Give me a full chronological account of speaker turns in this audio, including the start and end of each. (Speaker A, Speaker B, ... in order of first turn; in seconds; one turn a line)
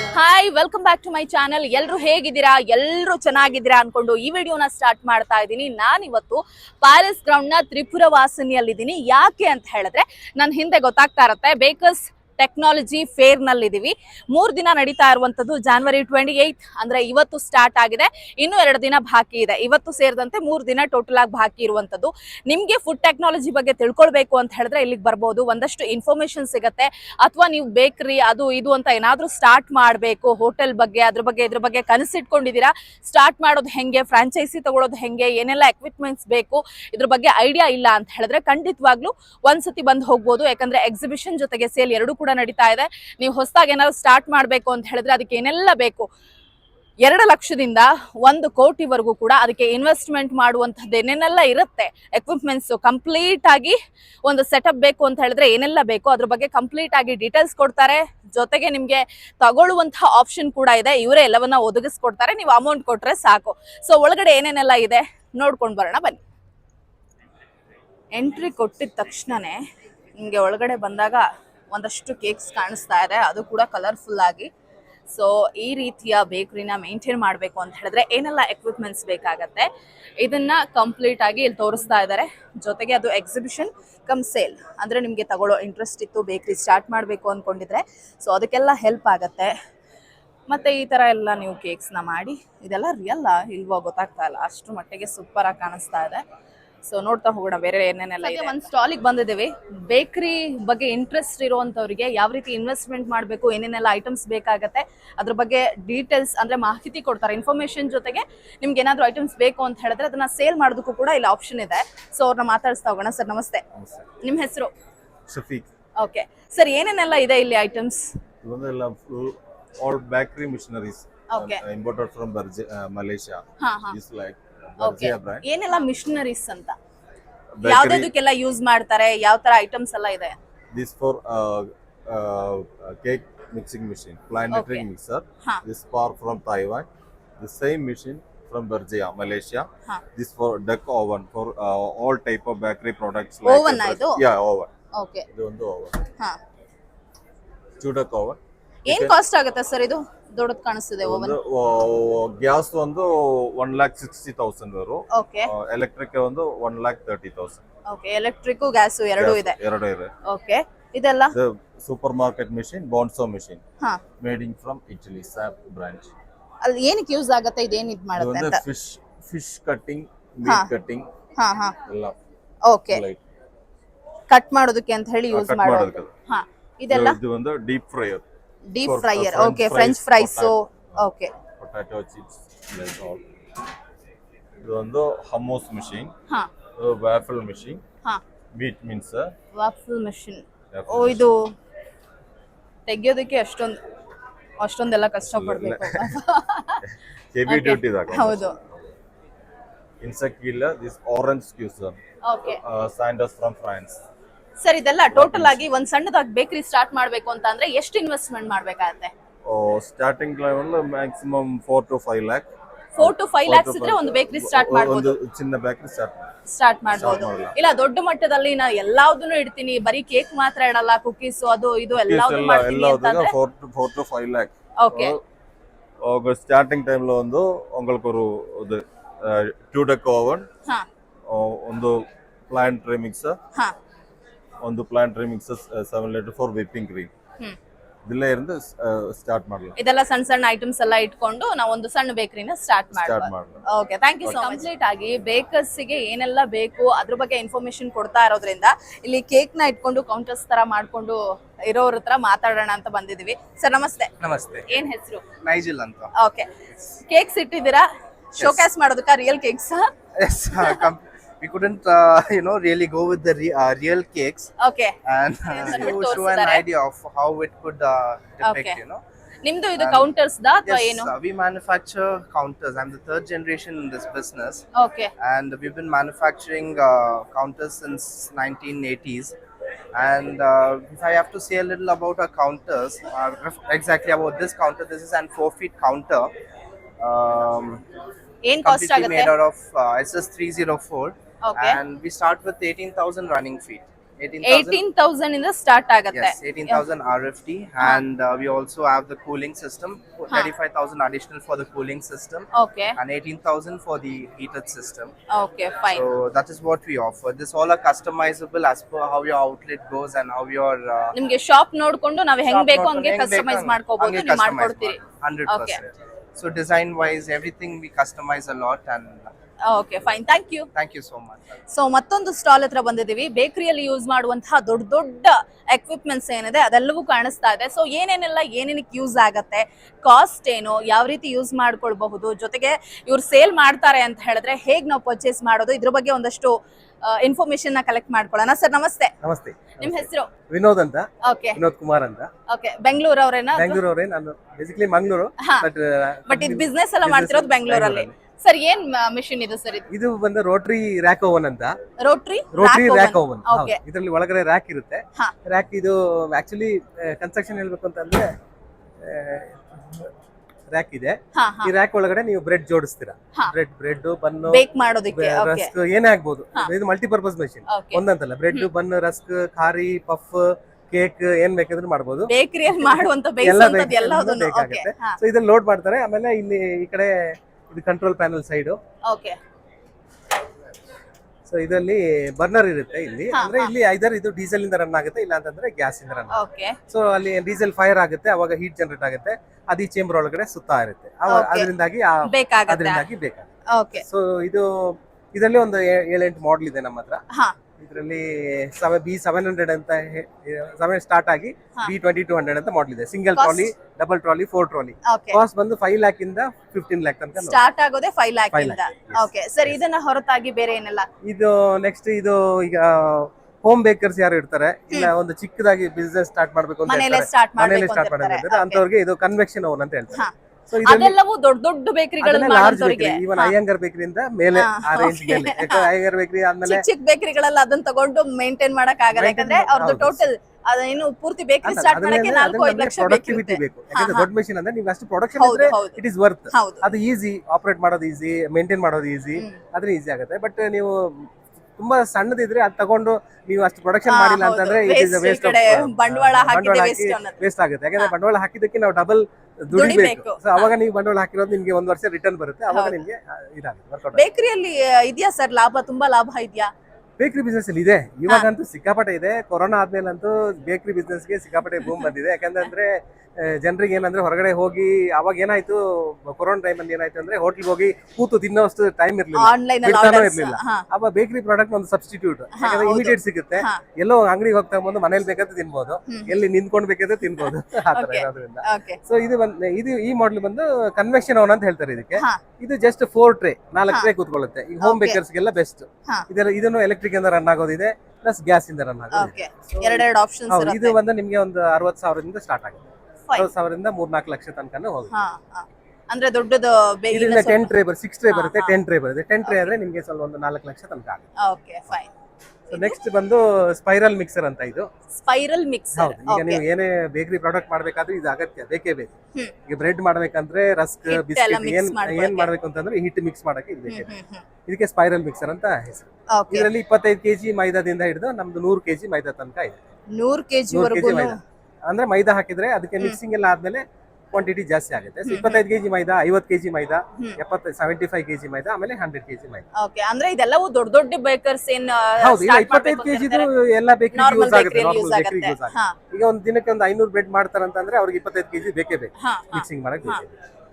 Speaker A: 0.1-46.1
Speaker A: 47.0-66.2
Speaker A: 68.1-69.6
Speaker A: 70.2-74.5
Speaker A: 75.1-79.7
Speaker A: 80.2-89.5
Speaker A: 90.5-96.2
Speaker A: 96.8-113.6
Speaker B: 113.7-114.0
Speaker A: 114.2-114.7
Speaker B: 115.3-115.7
Speaker A: 116.0-118.0
Speaker B: 118.4-125.4
Speaker A: 121.3-121.6
Speaker A: 123.6-124.0
Speaker A: 124.8-126.8
Speaker B: 127.6-128.1
Speaker A: 127.6-130.4
Speaker B: 130.7-136.9
Speaker A: 134.5-134.8
Speaker B: 137.4-144.7
Speaker A: 143.4-144.2
Speaker A: 145.0-145.2
Speaker B: 145.3-146.0
Speaker B: 147.8-149.1
Speaker A: 148.9-151.3
Speaker B: 151.0-157.6
Speaker A: 155.1-155.5
Speaker A: 157.9-159.6
Speaker B: 159.2-160.1
Speaker A: 160.2-161.3
Speaker B: 161.3-163.6
Speaker B: 164.2-166.1
Speaker A: 166.6-168.6
Speaker B: 168.2-171.1
Speaker A: 170.4-170.7
Speaker A: 171.4-171.7
Speaker B: 171.8-172.1
Speaker A: 172.7-173.0
Speaker B: 172.9-173.2
Speaker A: 174.3-177.2
Speaker B: 175.3-176.1
Speaker B: 176.9-178.2
Speaker A: 178.7-181.3
Speaker B: 178.8-181.0
Speaker B: 181.6-183.2
Speaker B: 184.6-186.1
Speaker B: 186.8-187.8
Speaker B: 188.5-189.3
Speaker A: 189.5-191.5
Speaker B: 190.7-191.3
Speaker A: 192.9-193.8
Speaker A: 194.6-196.8
Speaker B: 195.2-196.2
Speaker B: 196.8-198.9
Speaker A: 197.4-198.5
Speaker B: 200.0-204.0
Speaker A: 202.2-202.6
Speaker A: 204.6-209.1
Speaker B: 205.1-205.6
Speaker B: 209.4-216.3
Speaker A: 213.0-215.1
Speaker A: 216.5-223.3
Speaker B: 216.9-217.5
Speaker B: 221.9-225.2
Speaker A: 224.8-225.2
Speaker B: 226.0-230.5
Speaker B: 231.3-233.4
Speaker B: 234.6-237.1
Speaker B: 238.0-239.7
Speaker A: 239.8-254.1
Speaker B: 242.9-243.6
Speaker B: 244.2-244.7
Speaker C: 254.2-254.8
Speaker A: 254.7-255.2
Speaker C: 255.4-256.1
Speaker A: 256.1-256.5
Speaker A: 257.1-259.9
Speaker C: 258.4-258.6
Speaker C: 260.2-264.5
Speaker A: 264.6-264.9
Speaker C: 265.0-269.0
Speaker A: 265.5-266.6
Speaker A: 268.4-268.8
Speaker A: 269.4-271.1
Speaker C: 269.8-270.1
Speaker C: 270.6-274.6
Speaker A: 274.7-275.1
Speaker C: 275.2-279.3
Speaker C: 279.9-286.3
Speaker C: 287.0-287.8
Speaker A: 288.4-289.3
Speaker C: 288.6-294.8
Speaker A: 291.4-291.8
Speaker A: 294.4-296.8
Speaker C: 296.1-305.1
Speaker A: 302.5-302.9
Speaker A: 305.3-306.0
Speaker C: 305.9-311.1
Speaker A: 311.1-315.8
Speaker C: 312.4-319.3
Speaker A: 319.6-320.7
Speaker C: 320.7-321.4
Speaker A: 321.7-339.1
Speaker D: 339.2-342.3
Speaker A: 339.8-340.3
Speaker A: 341.2-341.6
Speaker A: 342.5-343.8
Speaker D: 343.5-348.1
Speaker A: 345.4-345.7
Speaker A: 346.3-349.9
Speaker D: 349.9-351.8
Speaker A: 352.0-353.8
Speaker D: 352.5-358.3
Speaker D: 359.0-360.1
Speaker D: 360.7-378.8
Speaker A: 361.3-361.7
Speaker A: 364.5-365.7
Speaker A: 367.7-368.7
Speaker A: 372.3-375.2
Speaker A: 379.1-379.4
Speaker D: 381.4-393.5
Speaker A: 383.3-383.7
Speaker A: 386.3-386.8
Speaker A: 391.3-391.7
Speaker A: 392.2-393.1
Speaker A: 393.7-394.1
Speaker D: 394.0-397.2
Speaker D: 397.8-407.6
Speaker A: 403.4-403.7
Speaker A: 405.0-405.4
Speaker A: 407.4-411.1
Speaker D: 408.5-409.8
Speaker D: 411.2-421.1
Speaker A: 416.9-418.8
Speaker A: 420.1-423.5
Speaker D: 422.2-426.8
Speaker A: 424.5-425.9
Speaker A: 426.6-434.3
Speaker D: 429.1-430.3
Speaker D: 431.6-454.2
Speaker A: 435.4-436.9
Speaker A: 444.0-447.4
Speaker A: 449.7-450.7
Speaker A: 452.7-453.0
Speaker A: 454.1-456.7
Speaker D: 457.2-495.1
Speaker A: 469.3-470.8
Speaker A: 472.5-473.8
Speaker A: 476.1-476.4
Speaker A: 477.4-479.0
Speaker A: 484.8-485.2
Speaker A: 489.1-491.0
Speaker A: 495.1-497.7
Speaker D: 497.1-501.3
Speaker A: 498.3-498.8
Speaker A: 499.4-499.7
Speaker A: 501.4-502.1
Speaker A: 502.7-503.0
Speaker D: 502.7-504.9
Speaker A: 505.1-506.6
Speaker D: 505.9-514.1
Speaker A: 511.1-512.5
Speaker A: 513.9-514.4
Speaker D: 514.6-519.8
Speaker A: 516.3-516.7
Speaker A: 520.1-521.4
Speaker D: 520.7-529.6
Speaker A: 525.2-525.6
Speaker A: 529.8-533.5
Speaker D: 532.2-540.3
Speaker A: 534.1-536.0
Speaker A: 539.2-540.2